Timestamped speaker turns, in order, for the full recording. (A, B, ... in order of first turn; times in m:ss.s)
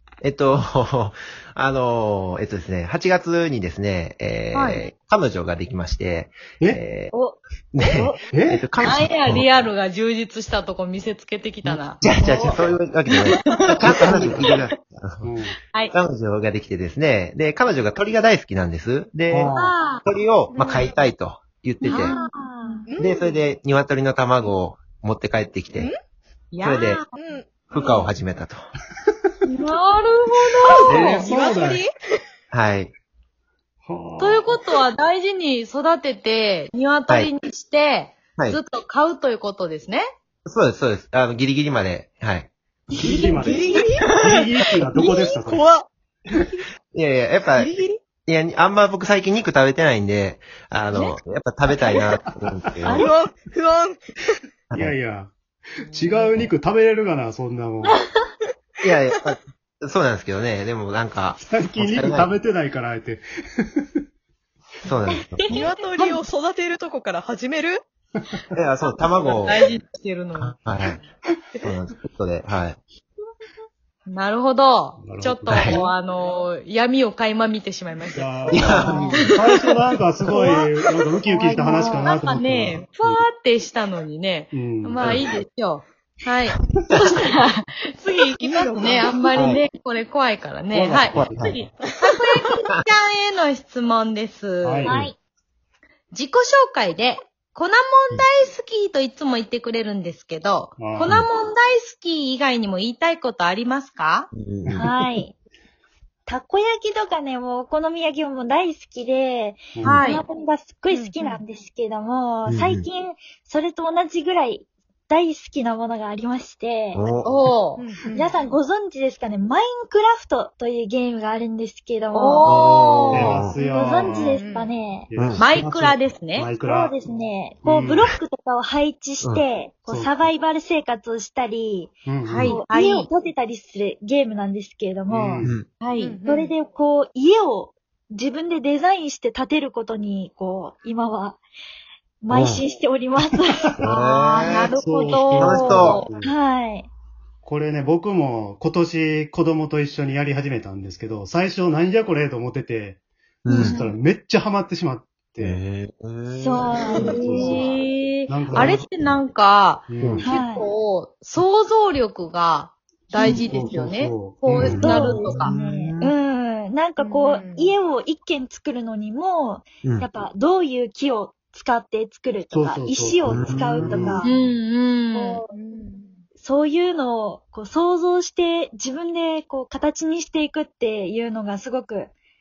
0:00.2-0:09.6 A
0:04.5-0:04.8 B
0:07.1-0:07.4 C
0:08.3-0:08.7 D
0:08.8-0:12.0 B
0:11.6-0:15.3 A
0:12.2-0:12.6 D
0:13.1-0:14.5 B
0:13.9-0:14.4 D
0:15.2-0:15.6 D
0:15.9-0:22.2 A
0:19.3-0:19.7 D
0:19.5-0:20.0 B
0:20.5-0:21.0 E
0:21.8-0:22.8 B
0:22.0-0:22.9 C
0:22.9-0:23.4 E
0:23.0-0:25.9 A
0:26.5-0:27.1 B
0:26.6-0:27.0 A
0:27.1-0:27.7 E
0:27.7-0:28.6 A
0:29.4-0:31.3 B
0:30.7-0:31.9 E
0:30.8-0:31.8 D
0:32.5-0:32.9 A
0:33.8-0:34.6 D
0:34.2-0:40.0 B
0:40.4-0:42.5 A
0:42.9-0:44.4 E
0:42.9-0:45.6 D
0:44.9-0:46.6 E
0:46.9-0:47.7 A
0:47.6-0:48.0 E
0:48.2-0:53.1 A
0:52.8-0:54.0 E
0:54.7-0:55.3 D
0:55.9-0:56.3 E
0:55.9-0:58.0 D
0:58.8-1:02.3 A
1:01.4-1:03.8 D
1:04.8-1:05.6 A
1:05.5-1:07.8 E
1:08.5-1:09.6 A
1:09.3-1:10.6 B
1:10.4-1:11.0 A
1:11.6-1:12.8 A
1:14.1-1:19.6 B
1:15.0-1:15.9 D
1:15.5-1:15.8 A
1:18.1-1:22.8 D
1:18.5-1:19.2 A
1:20.3-1:20.6 B
1:21.3-1:22.0 C
1:21.6-1:22.0 A
1:21.9-1:34.9 B
1:24.5-1:25.1 D
1:25.0-1:25.2 A
1:28.3-1:29.3 E
1:29.3-1:29.6 A
1:30.7-1:31.6 D
1:31.1-1:31.6 A
1:34.6-1:35.1 D
1:34.9-1:35.1 A
1:36.1-1:44.3 B
1:40.8-1:41.2 D
1:44.3-1:44.8 A
1:44.6-1:45.2 D
1:44.8-1:45.3 C
1:46.3-1:57.0 C
1:49.8-1:50.1 D
1:49.8-1:50.2 B
1:50.9-1:51.4 E
1:52.4-1:52.9 A
1:56.9-1:57.3 A
1:57.2-1:57.8 B
1:57.8-1:58.5 E
1:58.1-2:02.4 C
2:02.1-2:03.4 B
2:02.4-2:03.6 A
2:03.1-2:04.4 D
2:03.6-2:05.1 C
2:04.0-2:04.7 E
2:05.1-2:06.9 D
2:05.1-2:05.4 A
2:05.4-2:06.5 B
2:06.6-2:15.3 C
2:07.6-2:08.2 D
2:09.2-2:09.4 A
2:09.8-2:10.2 D
2:12.0-2:12.5 D
2:12.2-2:13.1 B
2:15.1-2:15.5 D
2:15.4-2:15.7 A
2:15.8-2:16.2 B
2:16.0-2:16.5 E
2:16.2-2:21.4 C
2:22.2-2:23.7 C
2:22.3-2:22.6 A
2:23.3-2:23.8 D
2:23.8-2:24.7 A
2:23.8-2:26.1 B
2:24.7-2:26.3 D
2:25.4-2:26.2 A
2:26.2-2:26.9 C
2:27.4-2:33.0 D
2:33.4-2:33.8 A
2:33.5-2:33.8 C
2:33.6-2:35.6 D
2:35.4-2:36.8 A
2:36.4-2:37.2 C
2:36.7-2:37.6 E
2:37.0-2:45.5 B
2:37.1-2:38.9 D
2:37.3-2:37.6 A
2:39.9-2:40.3 D
2:40.0-2:40.4 A
2:40.2-2:40.7 C
2:43.2-2:44.9 D
2:44.5-2:46.2 A
2:44.8-2:54.3 C
2:47.0-2:47.8 E
2:49.8-2:50.1 A
2:52.5-2:54.2 D
2:53.2-2:54.0 A
2:54.2-2:55.4 B
2:55.5-2:56.2 E
2:56.4-3:02.1 C